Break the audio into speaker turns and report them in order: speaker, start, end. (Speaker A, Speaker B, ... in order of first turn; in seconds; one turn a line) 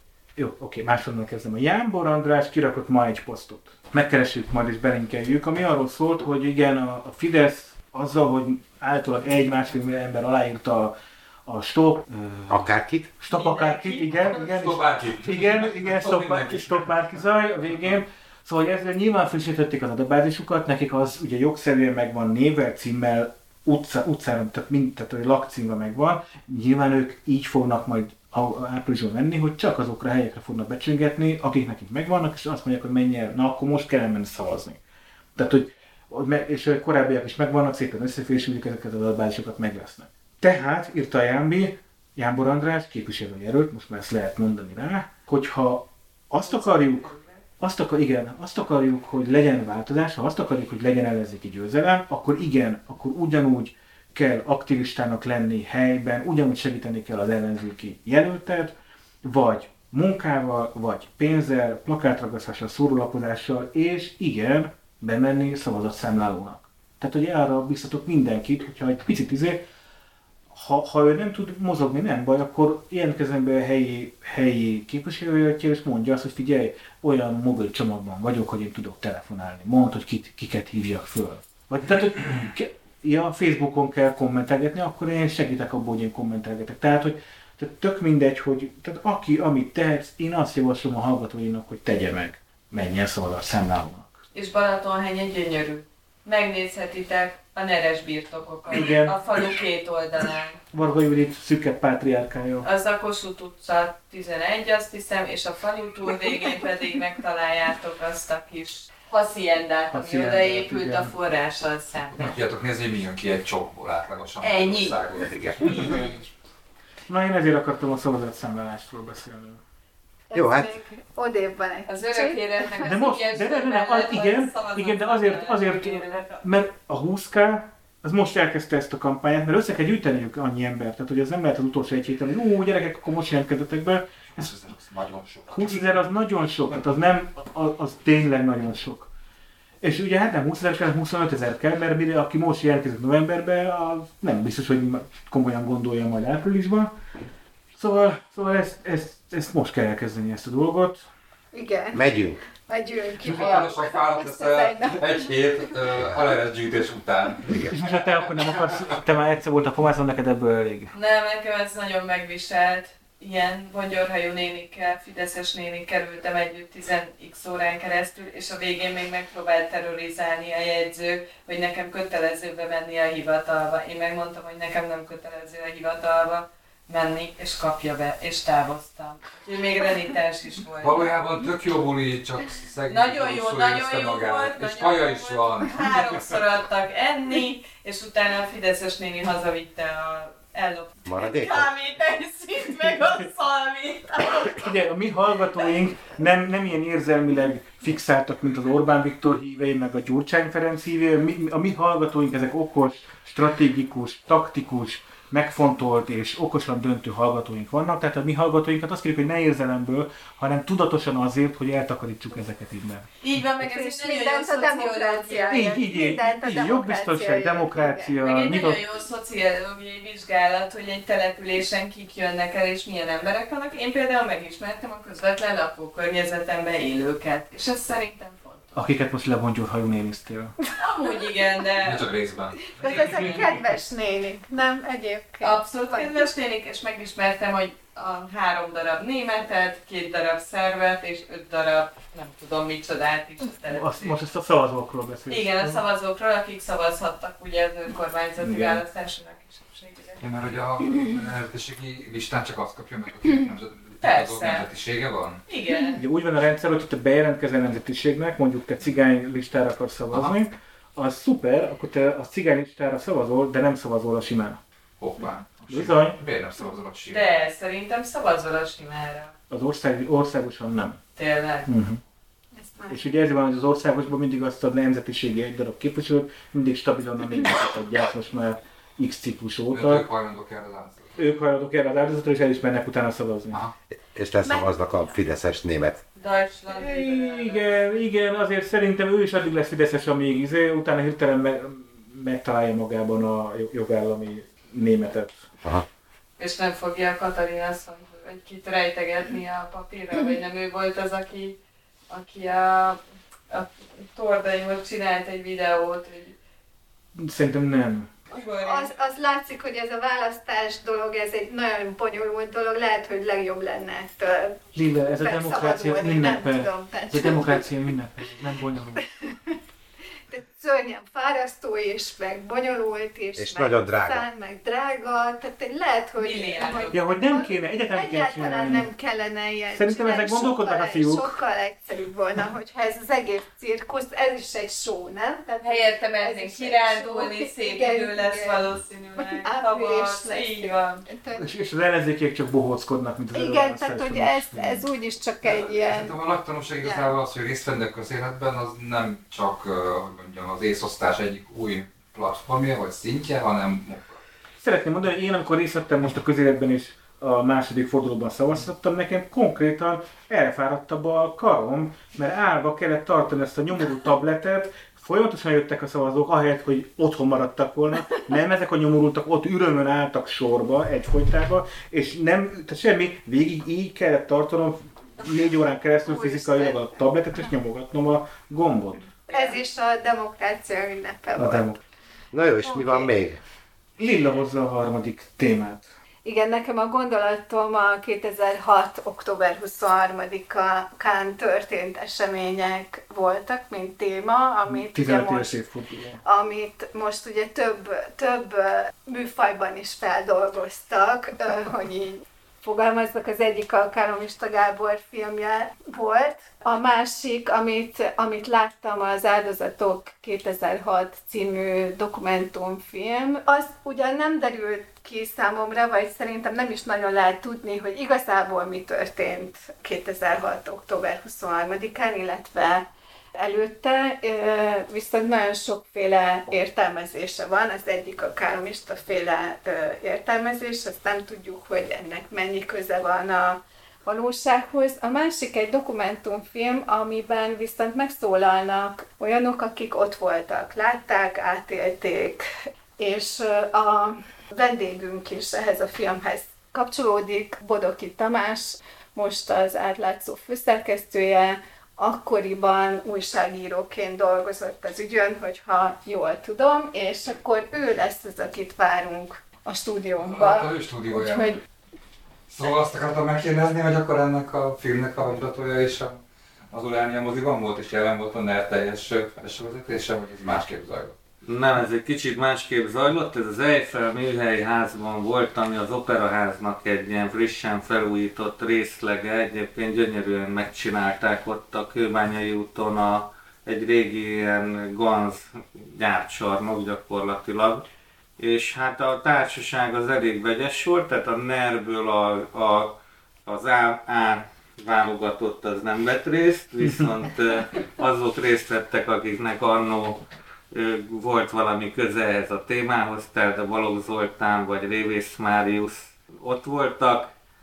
Speaker A: 0.4-10.9
Speaker A: 11.4-34.8
Speaker B: 12.5-13.1
Speaker C: 13.9-16.9
Speaker A: 35.4-69.6
Speaker D: 46.4-47.4
Speaker A: 70.5-94.2
Speaker D: 94.3-100.6
Speaker A: 98.7-99.1
Speaker A: 100.7-102.7
Speaker D: 102.6-112.4
Speaker A: 109.9-111.1
Speaker C: 112.2-116.2
Speaker D: 114.4-115.0
Speaker A: 117.1-119.6
Speaker E: 120.3-122.9
Speaker B: 120.3-120.7
Speaker D: 121.9-126.4
Speaker A: 122.8-134.1
Speaker C: 134.3-136.0
Speaker A: 135.5-139.1
Speaker A: 139.8-146.9
Speaker A: 147.8-151.1
Speaker E: 151.5-155.3
Speaker B: 151.9-152.4
Speaker C: 153.2-157.8
Speaker A: 157.7-160.9
Speaker D: 160.9-181.1
Speaker C: 180.8-186.4
Speaker D: 182.9-194.6
Speaker B: 191.1-191.7
Speaker A: 194.6-213.1
Speaker D: 213.2-215.8
Speaker E: 213.6-218.1
Speaker A: 215.5-218.8
Speaker D: 218.2-228.7
Speaker A: 228.7-230.5
Speaker D: 230.8-232.1
Speaker C: 231.8-233.6
Speaker E: 232.8-236.1
Speaker D: 235.4-244.3
Speaker A: 243.7-245.8
Speaker D: 245.3-250.2
Speaker A: 248.4-248.8
Speaker C: 250.2-255.4
Speaker D: 254.0-254.7
Speaker D: 255.5-256.0
Speaker A: 255.9-264.6
Speaker C: 260.1-260.4
Speaker C: 265.0-267.2
Speaker A: 265.7-266.2
Speaker D: 267.1-269.3
Speaker A: 269.5-271.0
Speaker D: 271.1-271.7
Speaker A: 271.6-272.0
Speaker E: 272.6-273.0
Speaker A: 272.9-280.1
Speaker C: 279.7-281.2
Speaker A: 281.2-283.6
Speaker B: 284.1-286.0
Speaker D: 286.1-287.8
Speaker A: 286.7-295.4
Speaker D: 296.4-301.6
Speaker D: 302.1-303.0
Speaker D: 303.5-306.4
Speaker A: 307.1-308.1
Speaker D: 308.3-308.9
Speaker E: 308.6-317.6
Speaker A: 314.7-319.0
Speaker E: 319.3-319.6
Speaker E: 320.3-341.5
Speaker B: 323.4-324.2
Speaker D: 326.2-327.1
Speaker A: 326.9-328.9
Speaker A: 329.7-331.4
Speaker D: 335.6-341.0
Speaker A: 341.4-344.8
Speaker E: 343.3-346.1
Speaker C: 345.4-354.2
Speaker E: 346.8-347.1
Speaker A: 354.6-379.0
Speaker E: 376.0-376.9
Speaker E: 379.3-381.7
Speaker A: 381.4-381.8
Speaker B: 382.3-383.4
Speaker E: 382.6-383.1
Speaker A: 384.0-385.9
Speaker E: 386.2-395.6
Speaker A: 394.6-396.2
Speaker E: 396.2-461.6
Speaker C: 460.2-461.6
Speaker C: 462.5-466.2
Speaker C: 466.7-471.1
Speaker F: 471.4-487.8
Speaker F: 488.4-507.3